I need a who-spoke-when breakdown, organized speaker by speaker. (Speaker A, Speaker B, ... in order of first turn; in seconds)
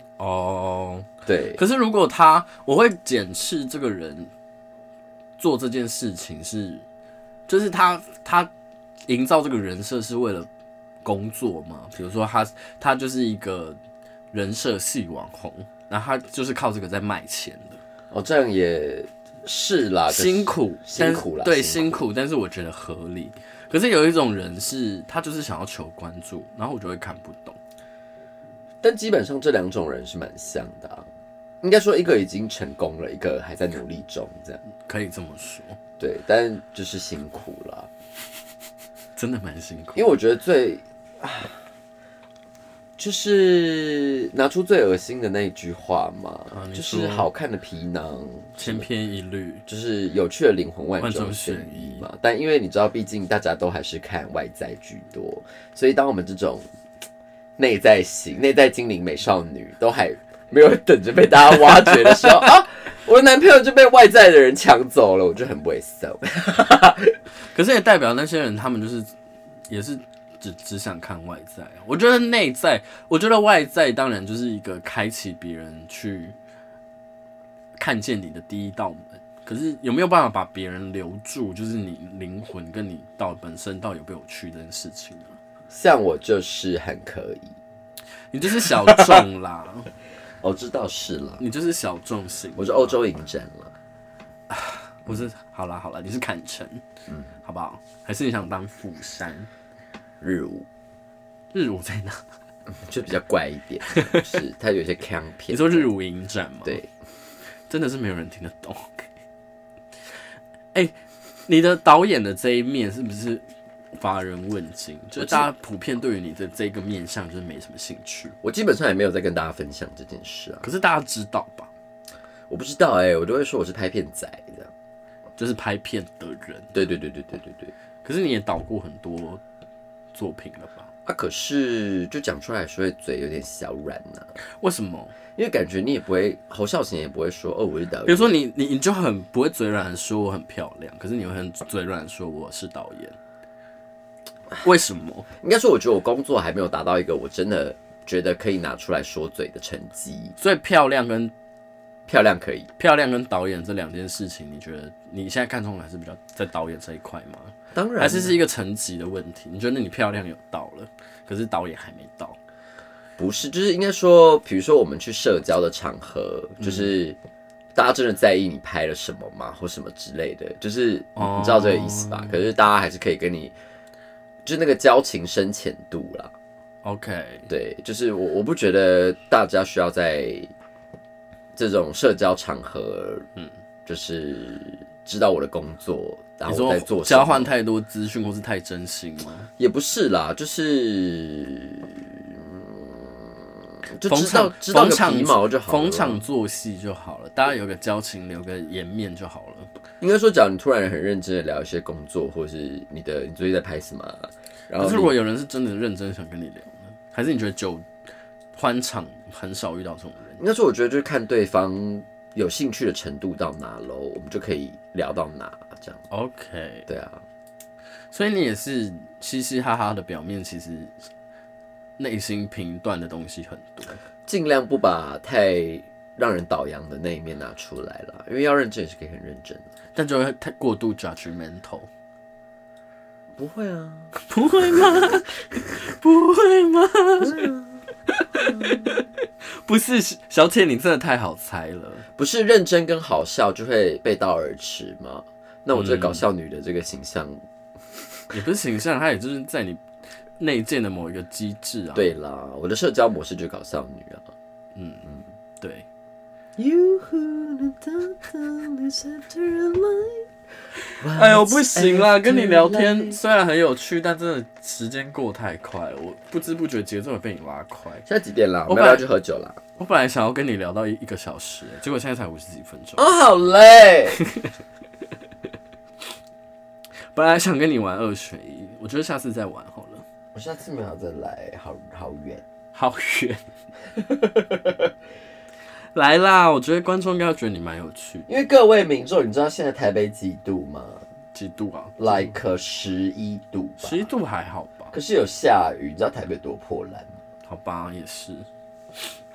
Speaker A: 0.2-4.3, 5.4-6.8, 7.5-8.5, 9.1-10.5, 11.0-13.8, 14.3-17.8, 20.1-27.6, 34.9-35.8, 39.1-40.1, 46.5-47.3, 48.6-49.6, 51.0-52.0, 61.8-62.5, 67.5-69.1, 69.7-76.3, 77.8-85.4, 88.3-89.9, 91.4-93.0, 94.5-96.8, 97.4-99.5, 101.5-102.2, 103.9-104.3, 105.5-106.8, 107.7-109.1, 111.5-118.3, 120.6-121.7, 125.4-126.7, 128.0-129.4, 130.1-130.9, 134.6-135.1, 138.1-143.2, 144.6-145.3, 150.4-151.3, 152.8-162.4, 166.6-166.9, 171.2-172.4, 176.8-177.5, 186.5-189.5, 194.1-199.7, 204.8-207.9, 208.5-210.4, 216.1-216.9, 218.1-221.0, 222.0-224.0, 229.9-231.9, 234.2-237.5, 238.1-242.0, 245.7-246.2, 248.3-249.8, 250.4-252.1, 254.7-255.0, 255.6-255.8, 260.9-268.1, 268.7-269.0, 269.8-273.1, 274.2-274.5, 277.1-280.0, 282.7-283.4, 285.9-288.3, 291.3-292.0, 293.8-294.9, 297.5-298.5
Speaker B: 1.2-1.6, 18.1-22.0, 28.8-31.1, 31.6-34.6, 36.0-37.9, 40.0-41.6, 43.0-48.9, 49.7-56.7, 57.6-67.2, 85.7-87.6, 88.7-89.2, 90.4-91.4, 92.5-93.7, 100.2-100.7, 102.8-105.9, 115.2-115.5, 118.4-120.7, 122.5-124.7, 126.7-127.7, 131.0-134.3, 135.3-138.3, 145.4-150.3, 152.1-152.7, 157.7-158.3, 163.2-167.2, 167.7-173.5, 174.4-176.3, 177.5-180.5, 181.6-183.2, 183.8-187.5, 189.6-196.2, 200.0-205.1, 210.4-216.0, 216.9-217.2, 224.2-229.6, 233.4-234.1, 237.2-239.1, 242.2-248.3, 251.9-254.3, 256.6-260.3, 261.0-263.2, 268.1-269.6, 273.0-274.2, 280.3-282.4, 283.9-284.9, 288.3-291.0, 292.0-294.1, 294.9-297.1